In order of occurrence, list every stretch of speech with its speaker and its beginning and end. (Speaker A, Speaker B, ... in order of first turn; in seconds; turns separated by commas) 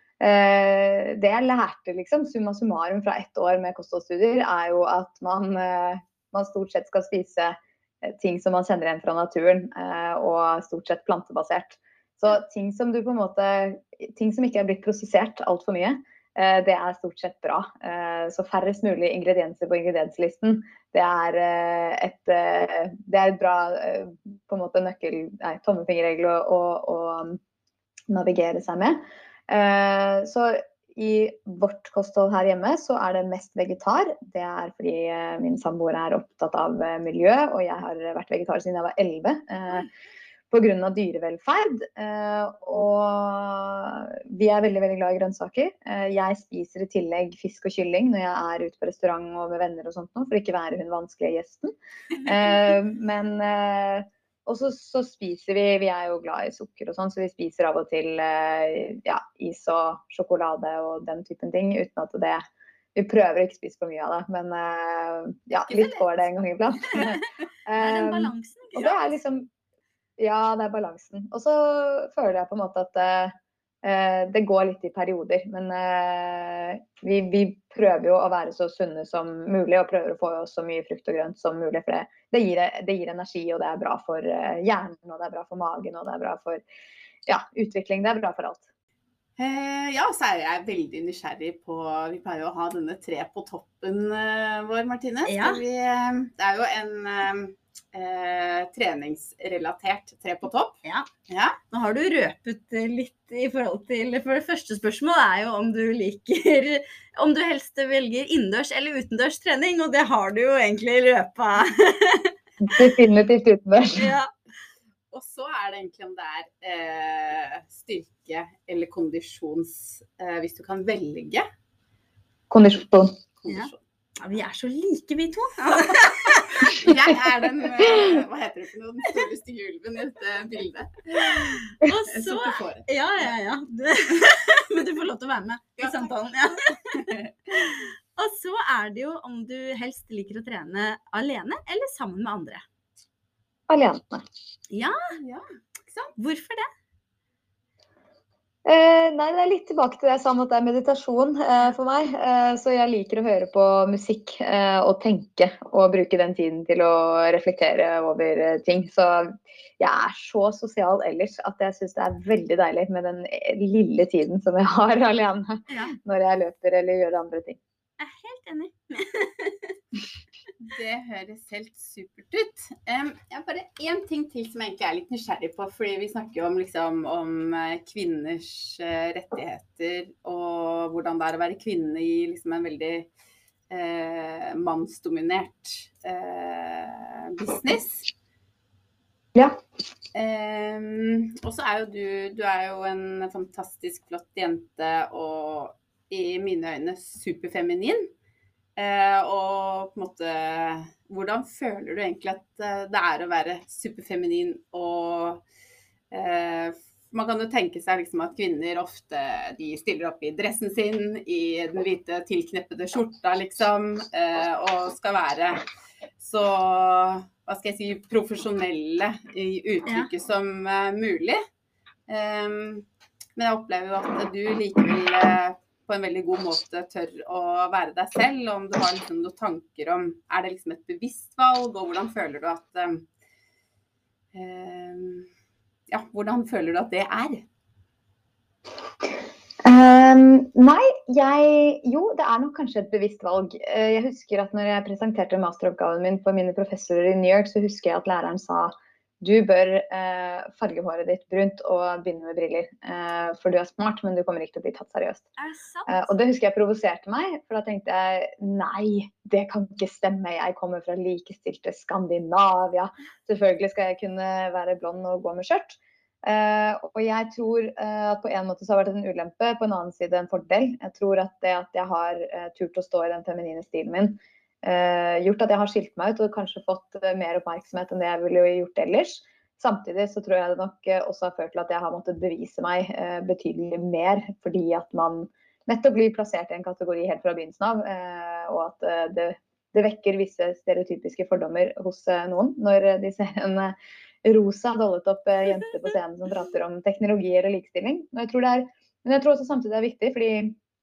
Speaker A: 0.2-27.4, Speaker A: 28.1-39.9, Speaker A: 40.5-62.4, Speaker A: 63.0-69.5, Speaker B: 65.7-66.1, Speaker C: 67.0-67.2, Speaker C: 67.8-69.2, Speaker A: 70.2-86.6, Speaker A: 87.3-88.7, Speaker B: 89.4-101.6, Speaker C: 95.3-95.6, Speaker C: 101.7-112.8, Speaker A: 112.6-114.2, Speaker C: 114.0-114.3, Speaker B: 115.1-121.5, Speaker A: 122.5-123.2, Speaker B: 123.4-123.8, Speaker C: 123.5-126.8, Speaker B: 126.7-133.3, Speaker C: 131.2-142.7, Speaker B: 135.8-136.1, Speaker A: 143.7-144.2, Speaker C: 144.7-145.2, Speaker B: 145.2-146.1, Speaker C: 146.2-146.7, Speaker A: 148.7-167.6, Speaker C: 165.7-165.9, Speaker C: 168.0-169.8, Speaker B: 170.6-183.1, Speaker B: 183.7-188.1, Speaker A: 189.3-189.6, Speaker B: 190.1-198.1, Speaker B: 198.8-205.4, Speaker B: 206.1-215.7, Speaker B: 216.2-221.4, Speaker B: 222.1-233.1, Speaker B: 234.3-235.3, Speaker B: 235.9-237.5, Speaker A: 239.6-255.3, Speaker C: 255.4-256.1, Speaker A: 255.9-300.6